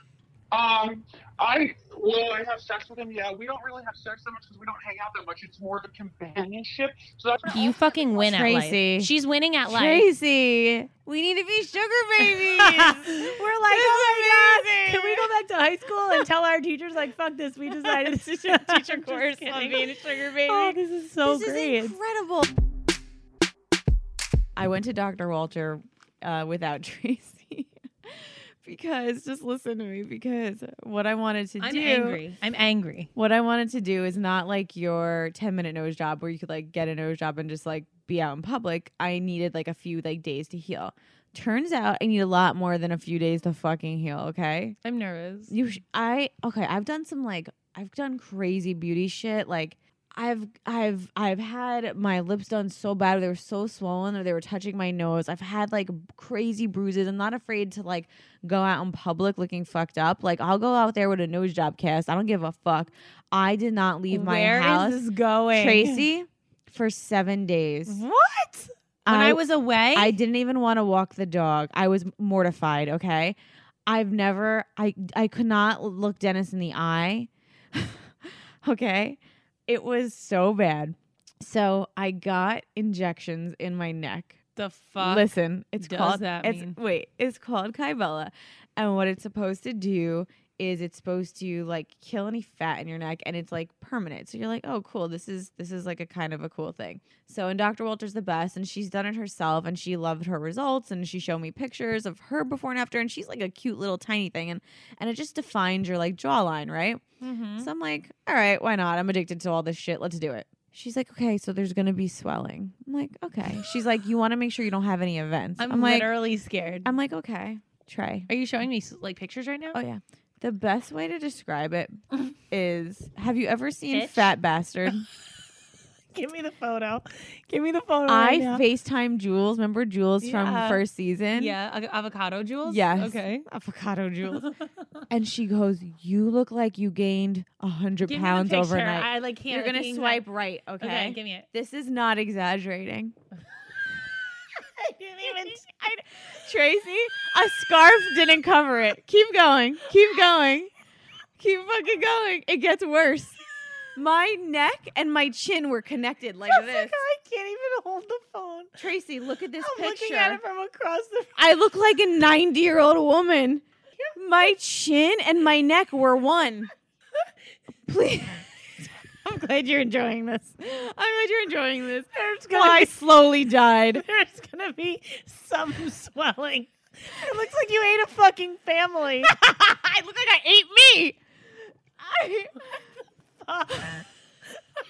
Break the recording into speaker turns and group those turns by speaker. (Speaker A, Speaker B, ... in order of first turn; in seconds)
Speaker A: 0.5-8.1
Speaker B: 7.5-10.1, 12.2-19.9, 20.4-22.0, 31.6-33.1, 44.8-45.5, 64.1-66.0, 67.9-70.2, 84.6-85.3, 85.8-86.8, 107.2-107.7, 115.6-116.9, 118.3-119.8, 123.9-124.3, 126.1-128.6, 130.2-130.8, 131.3-133.5, 134.3-134.6, 138.1-140.2, 140.8-141.5, 144.6-145.6, 156.5-158.8, 159.6-161.3, 164.0-164.5, 172.1-173.0, 173.9-179.3, 183.4-184.0
Speaker C: 8.2-9.1, 9.7-15.3, 17.7-22.5, 24.6-32.2, 33.1-44.8, 45.5-68.0, 69.0-69.4, 69.9-84.4, 85.0-107.0, 107.6-116.1, 116.8-118.3, 119.7-122.0, 122.5-125.1, 128.1-131.6, 132.7-134.5, 135.1-143.2, 145.2-150.7, 151.4-153.4, 154.0-157.0, 158.8-160.4, 161.4-163.6, 164.2-166.7, 167.9-168.4, 169.2-174.0, 179.2-181.2, 182.0-182.8, 183.7-184.0